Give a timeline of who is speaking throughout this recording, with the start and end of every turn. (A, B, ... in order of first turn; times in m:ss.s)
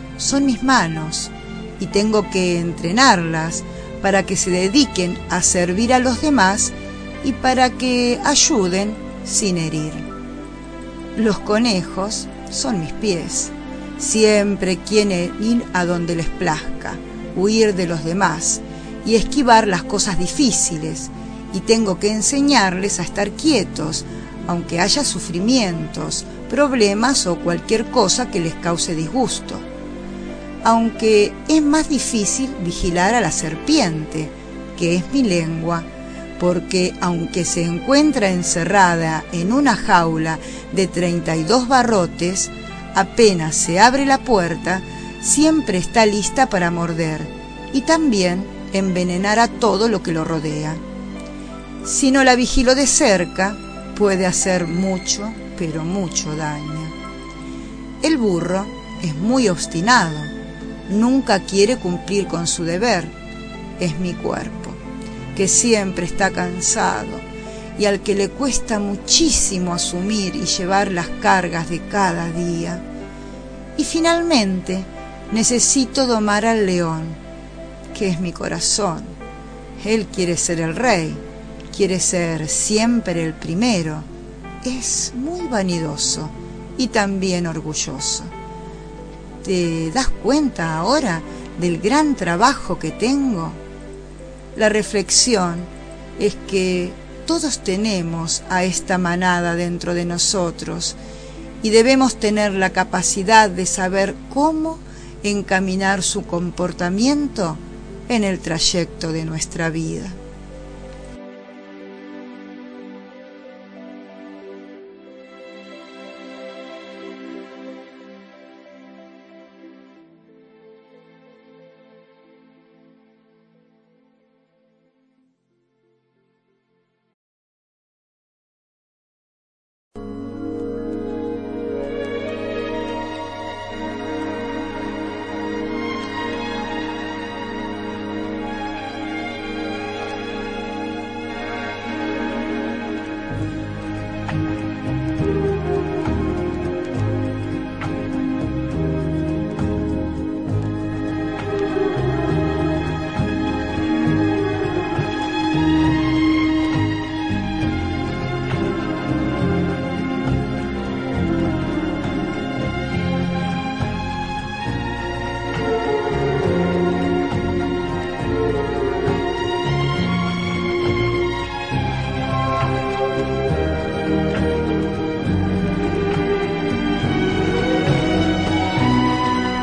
0:00.2-0:10.1 A
0:11.2-0:29.6 A
0:30.6-0:35.9 A
0:36.4-0:50.8 A
0:51.8-0:56.9 A
0:58.0-1:00.3 A
1:00.9-1:03.1 A
1:03.8-1:04.8 A
1:05.3-1:07.2 A
1:07.8-1:12.8 A
1:13.8-1:17.2 A
1:17.9-1:19.2 A
1:19.8-1:24.1 A
1:24.6-1:28.3 A
1:29.4-1:33.6 A
1:34.5-1:41.0 A
1:41.6-1:50.2 A